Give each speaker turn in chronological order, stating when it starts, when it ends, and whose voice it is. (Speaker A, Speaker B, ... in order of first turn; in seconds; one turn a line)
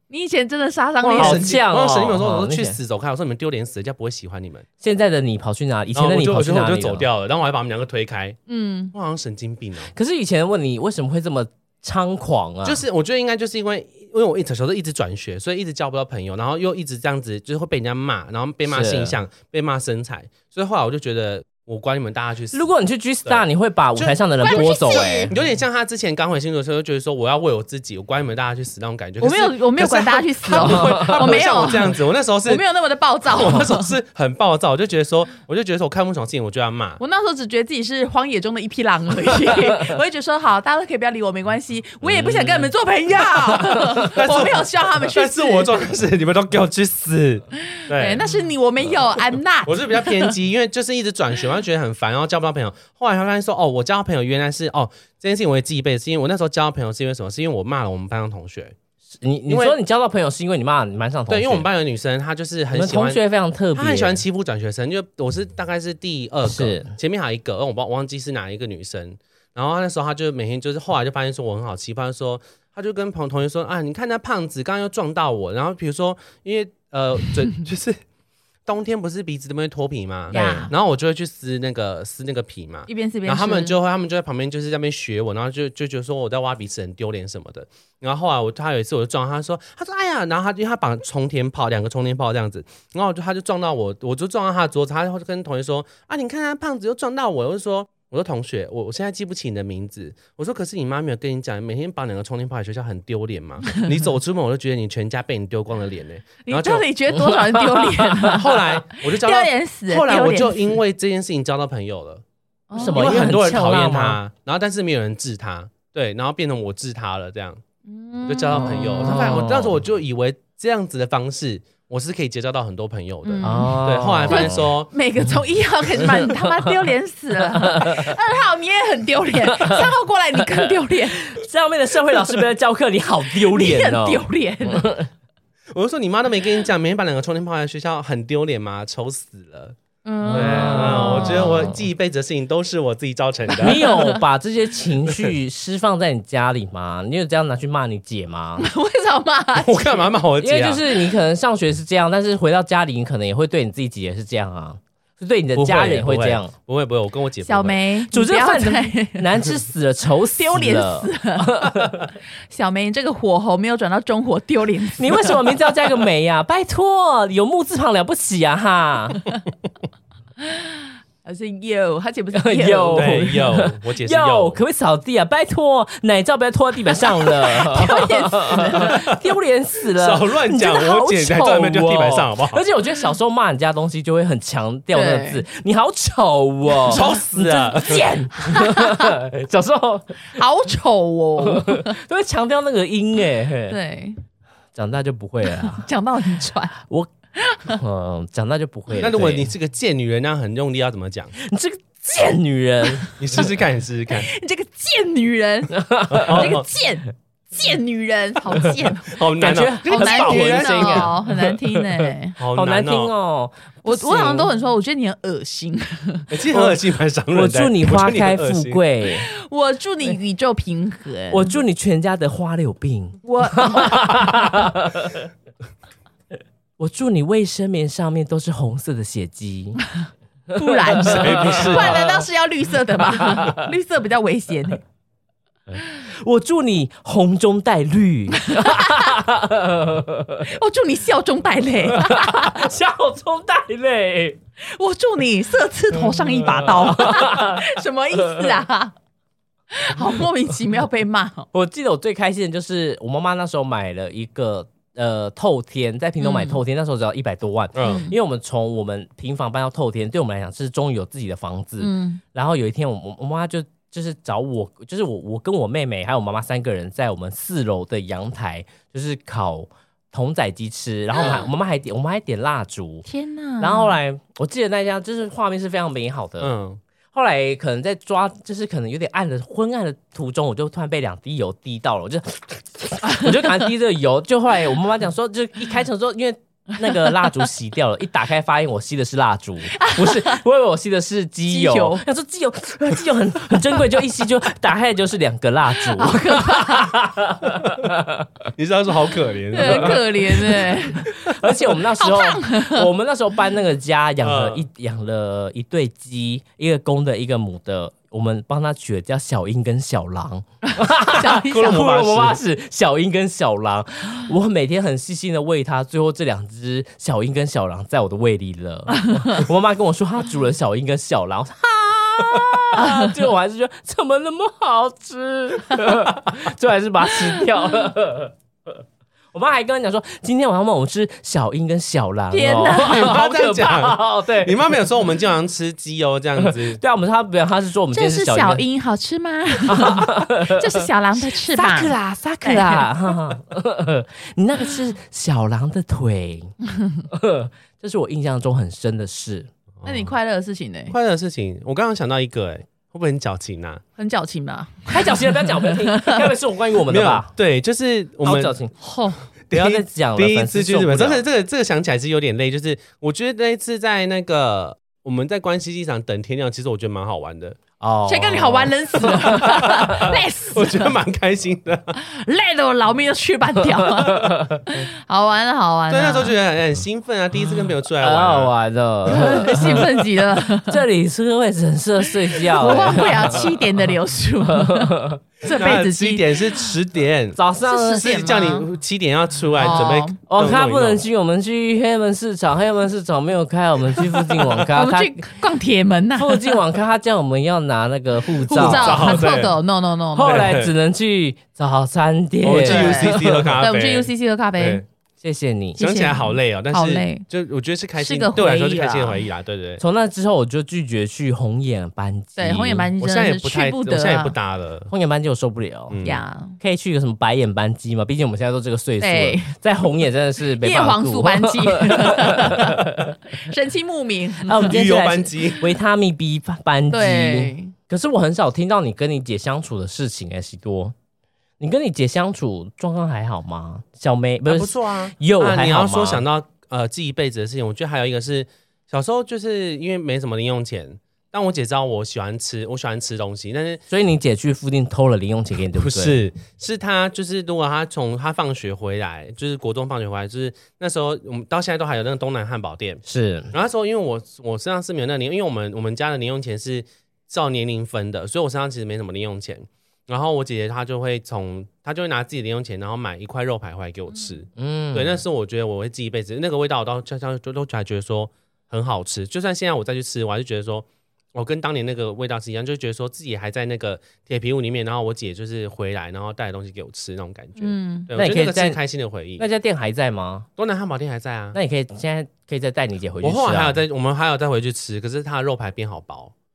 Speaker A: 0.1-1.6
Speaker B: 1.0-4.6
Speaker C: 1.1-2.8
Speaker C: 4.8-7.1
Speaker B: 5.9-8.4
Speaker A: 8.5-8.9
Speaker B: 8.9-9.9
Speaker C: 9.9-12.8
Speaker B: 12.6-22.6
Speaker C: 18.6-19.2
Speaker C: 22.5-25.4
Speaker B: 23.9-32.6
Speaker A: 24.4-25.3
Speaker A: 29.2-31.9
Speaker C: 30.6-31.3
Speaker A: 32.5-33.9
Speaker B: 33.3-37.0
Speaker A: 37.0-45.8
Speaker C: 42.1-42.6
Speaker B: 43.7-48.3
Speaker A: 47.7-50.3
Speaker B: 49.6-58.7
Speaker C: 59.1-61.7
Speaker B: 59.5-59.8
Speaker B: 61.3-63.2
Speaker C: 62.7-64.2
Speaker B: 63.7-78.0
Speaker C: 66.4-66.9
Speaker B: 78.7-106.9
Speaker A: 80.3-80.7
Speaker C: 80.3-80.6
Speaker A: 82.9-83.8
Speaker A: 106.4-110.8
Speaker C: 107.1-108.2
Speaker B: 108.3-112.2
Speaker A: 112.7-113.3
Speaker C: 112.7-114.2
Speaker B: 112.9-117.6
Speaker A: 117.8-119.2
Speaker B: 118.2-124.9
Speaker C: 118.6-119.8
Speaker A: 123.2-131.3
Speaker C: 123.4-124.7
Speaker C: 126.0-126.7
Speaker C: 127.5-128.2
Speaker C: 129.5-129.9
Speaker C: 131.2-135.1
Speaker A: 133.4-135.0
Speaker B: 135.7-139.8
Speaker A: 140.0-141.7
Speaker C: 140.2-141.8
Speaker B: 140.3-143.8
Speaker C: 143.6-148.7
Speaker A: 143.6-144.2
Speaker A: 148.6-150.1
Speaker B: 149.6-150.9
Speaker C: 150.4-156.5
Speaker B: 155.5-157.8
Speaker A: 157.4-159.4
Speaker C: 158.1-162.1
Speaker A: 160.3-161.7
Speaker A: 162.5-165.7
Speaker C: 165.0-169.2
Speaker A: 170.4-173.3
Speaker C: 172.3-190.3
Speaker B: 172.9-174.6
Speaker A: 177.2-179.1
Speaker B: 179.9-182.6
Speaker A: 184.9-185.4
Speaker B: 186.9-188.1
Speaker A: 188.3-189.2
Speaker A: 190.3-192.0
Speaker C: 191.4-193.8
Speaker A: 193.7-194.2
Speaker C: 194.7-195.8
Speaker A: 195.5-196.8
Speaker C: 196.8-197.1
Speaker A: 197.4-197.8
Speaker C: 197.7-199.5
Speaker B: 198.9-201.3
Speaker C: 201.4-203.5
Speaker B: 203.2-204.3
Speaker A: 204.1-209.2
Speaker C: 205.7-206.5
Speaker B: 206.1-206.7
Speaker B: 209.1-211.1
Speaker C: 209.3-214.5
Speaker A: 209.8-212.3
Speaker B: 212.4-213.1
Speaker A: 213.8-216.3
Speaker B: 216.3-218.8
Speaker C: 217.3-219.3
Speaker A: 219.2-221.5
Speaker C: 221.3-225.2
Speaker A: 223.2-224.2
Speaker C: 226.8-229.8
Speaker A: 230.5-234.8
Speaker C: 230.7-232.0
Speaker B: 231.0-232.1
Speaker C: 233.2-233.6
Speaker C: 235.7-240.5
Speaker A: 238.4-239.1
Speaker A: 240.5-242.7
Speaker C: 241.9-244.4
Speaker A: 244.6-248.9
Speaker C: 246.1-247.7
Speaker C: 248.2-248.6
Speaker A: 249.7-251.5
Speaker C: 251.5-273.1
Speaker A: 256.2-256.6
Speaker B: 257.7-258.0
Speaker A: 257.8-258.1
Speaker A: 261.8-262.2
Speaker A: 271.1-271.4
Speaker A: 273.1-273.9
Speaker C: 273.6-276.5
Speaker B: 276.4-276.8
Speaker C: 277.1-298.4
Speaker A: 289.7-290.4
Speaker A: 291.5-292.0
Speaker A: 295.9-296.9
Speaker B: 298.6-301.3
Speaker A: 299.5-301.1
Speaker C: 299.6-328.8
Speaker A: 302.0-302.9
Speaker B: 304.2-304.6
Speaker A: 310.6-311.8
Speaker B: 311.3-312.4
Speaker A: 319.1-319.4
Speaker C: 329.3-334.6
Speaker A: 332.3-333.1
Speaker B: 332.8-336.8
Speaker C: 336.4-338.6
Speaker A: 337.9-342.9
Speaker C: 339.6-346.5
Speaker C: 347.1-349.5
Speaker B: 349.8-350.1
Speaker A: 349.8-350.9
Speaker B: 350.9-353.8
Speaker A: 354.0-356.2
Speaker C: 354.9-357.3
Speaker B: 356.9-358.5
Speaker C: 358.2-358.7
Speaker A: 358.8-359.2
Speaker B: 359.5-367.6
Speaker C: 359.5-361.2
Speaker C: 367.8-370.1
Speaker A: 368.1-370.9
Speaker B: 370.5-371.9
Speaker A: 371.9-376.3
Speaker C: 374.1-374.6
Speaker B: 375.9-378.5
Speaker C: 378.0-383.9
Speaker B: 379.1-379.8
Speaker A: 379.1-380.8
Speaker A: 382.4-386.7
Speaker B: 382.7-383.1
Speaker C: 384.4-385.2
Speaker B: 385.4-387.4
Speaker C: 387.3-388.1
Speaker A: 387.6-388.6
Speaker B: 387.9-391.0
Speaker A: 389.6-390.2
Speaker C: 389.7-395.2
Speaker A: 394.7-396.6
Speaker C: 396.2-399.3
Speaker A: 398.5-400.5
Speaker B: 398.5-399.6
Speaker C: 400.1-403.6
Speaker B: 400.2-400.7
Speaker B: 402.4-404.8
Speaker A: 402.5-404.8
Speaker C: 405.2-405.8
Speaker A: 405.8-407.2
Speaker B: 405.8-409.8
Speaker A: 408.0-409.2
Speaker C: 409.8-412.9
Speaker A: 412.4-414.3
Speaker B: 413.0-414.9
Speaker C: 414.9-416.0
Speaker B: 415.9-416.2
Speaker A: 416.0-416.6
Speaker C: 416.6-423.2
Speaker A: 419.0-419.5
Speaker A: 420.6-424.7
Speaker C: 424.4-430.9
Speaker B: 424.6-425.7
Speaker A: 426.9-427.7
Speaker C: 431.6-436.2
Speaker B: 434.5-443.8
Speaker C: 443.9-446.2
Speaker B: 445.7-479.4
Speaker C: 453.1-453.5
Speaker C: 464.6-465.2
Speaker A: 477.6-478.1
Speaker C: 478.1-478.8
Speaker C: 479.4-480.4
Speaker B: 480.6-481.6
Speaker C: 481.5-483.8
Speaker B: 483.2-486.3